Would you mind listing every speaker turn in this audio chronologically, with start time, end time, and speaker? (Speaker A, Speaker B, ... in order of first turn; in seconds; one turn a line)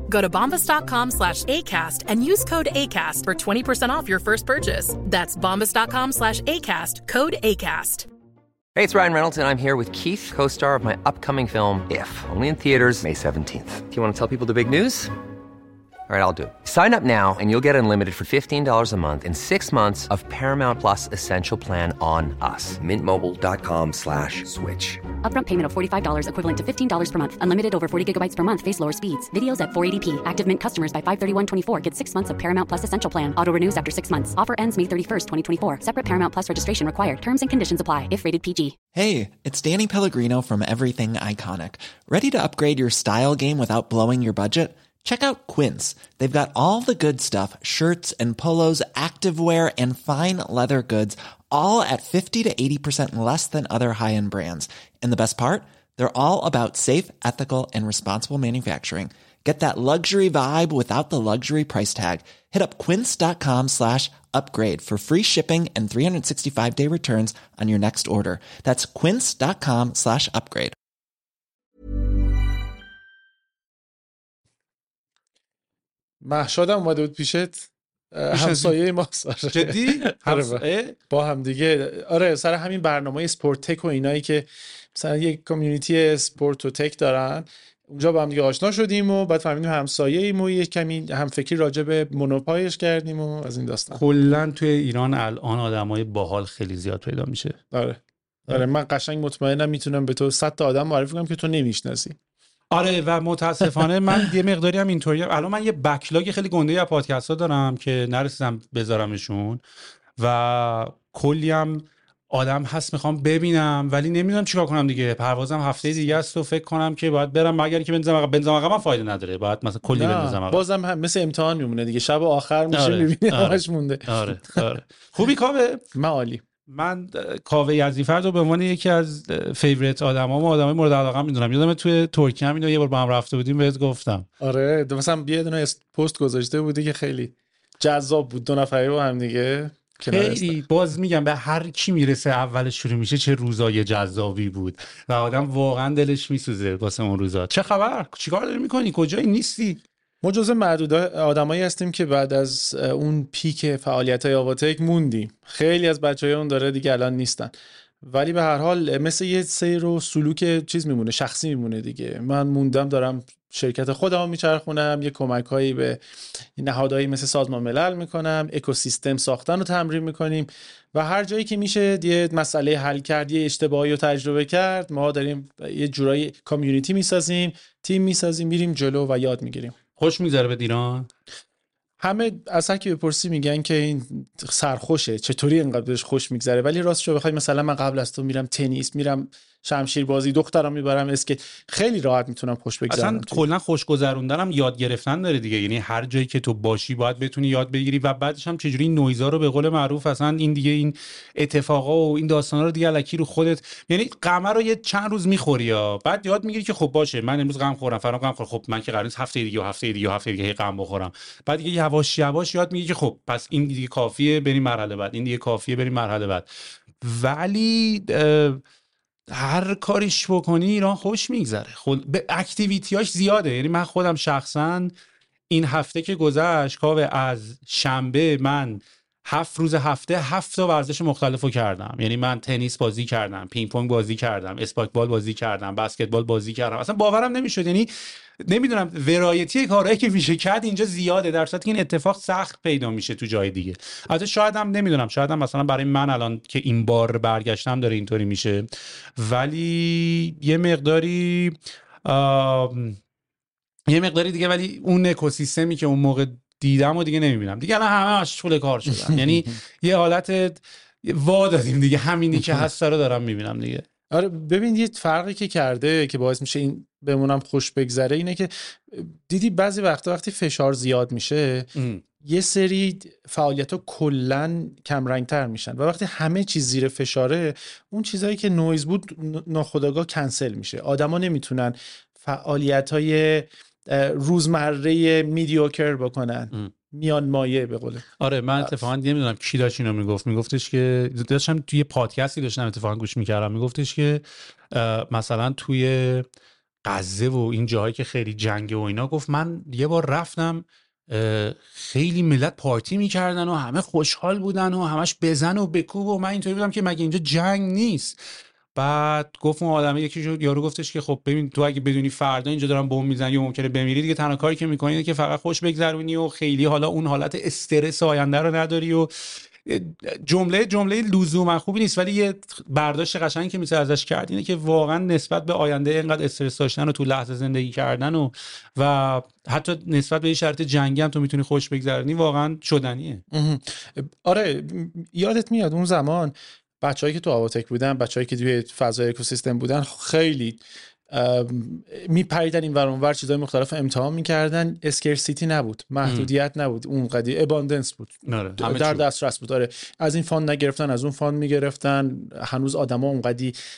Speaker A: 0.1-8.1
Speaker B: 8.8-15.1
Speaker B: 16.1-25.1
Speaker C: 25.2-38.8
Speaker D: 38.9-70.7
Speaker E: 76.2-94.0
Speaker F: 78.3-78.7
Speaker F: 79.5-81.0
Speaker F: 93.9-97.6
Speaker E: 97.7-102.2
Speaker F: 102.7-109.6
Speaker F: 110.2-120.6
Speaker E: 119.9-124.6
Speaker F: 122.7-125.8
Speaker E: 125.9-126.4
Speaker F: 126.7-134.3
Speaker E: 134.4-140.6
Speaker F: 140.1-149.8
Speaker E: 150.2-166.0
Speaker E: 166.6-179.8
Speaker F: 180.0-181.1
Speaker E: 182.0-193.4
Speaker F: 192.9-216.5
Speaker F: 217.0-218.6
Speaker F: 219.3-224.9
Speaker F: 225.5-253.0
Speaker F: 253.9-263.9
Speaker E: 258.9-259.6
Speaker E: 262.3-262.7
Speaker E: 264.1-271.7
Speaker F: 271.8-272.0
Speaker E: 272.2-288.1
Speaker F: 288.2-296.3
Speaker F: 296.9-308.2
Speaker F: 308.8-333.2
Speaker E: 333.3-353.6
Speaker F: 346.1-346.3
Speaker F: 348.3-349.0